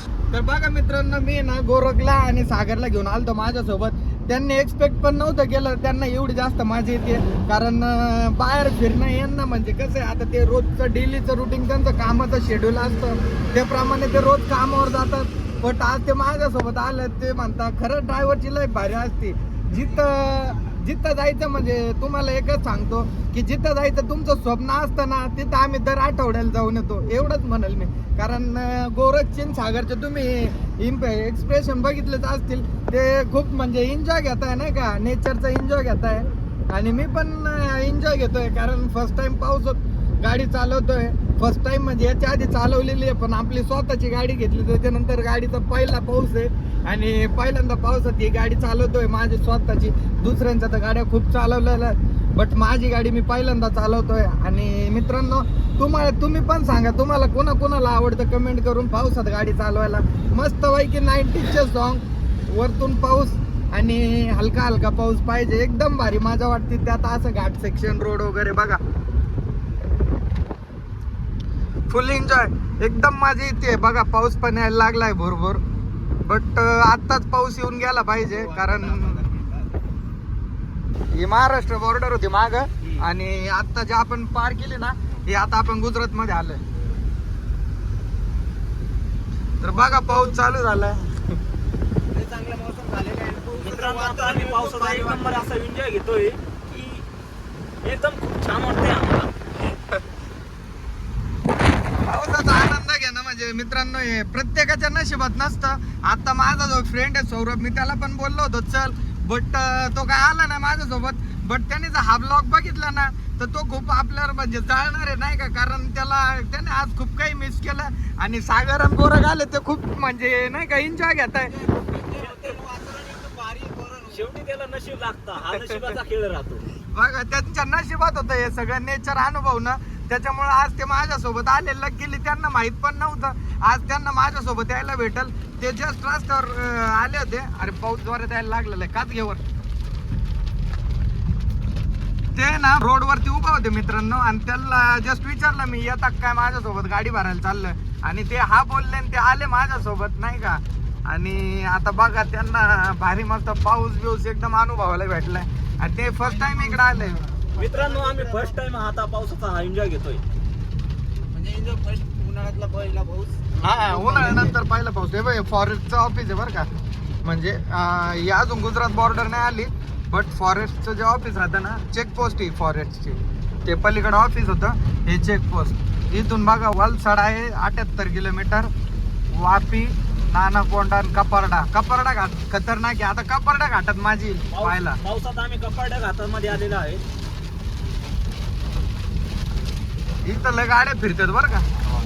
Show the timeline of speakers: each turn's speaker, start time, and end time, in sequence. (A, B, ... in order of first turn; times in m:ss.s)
0:00.3-1:08.8 A
1:11.9-1:15.6 A
1:16.2-1:19.2 A
1:18.3-1:19.7 B
1:21.1-1:26.6 A
1:29.6-1:31.4 A
1:32.1-1:35.4 B
1:33.6-1:37.0 C
1:37.8-1:39.3 C
1:42.0-2:01.5 A
2:01.5-2:04.3 B
2:02.2-2:02.6 C
2:04.1-2:06.6 C
2:05.5-2:05.8 A
2:06.9-2:19.4 A
2:22.3-2:37.2 A
2:36.4-2:38.6 B
2:37.6-2:40.2 C
2:41.3-2:44.5 B
2:43.6-2:46.7 A
2:47.2-2:58.7 A
2:59.3-3:05.0 A
3:04.5-3:07.0 C
3:10.2-3:11.7 A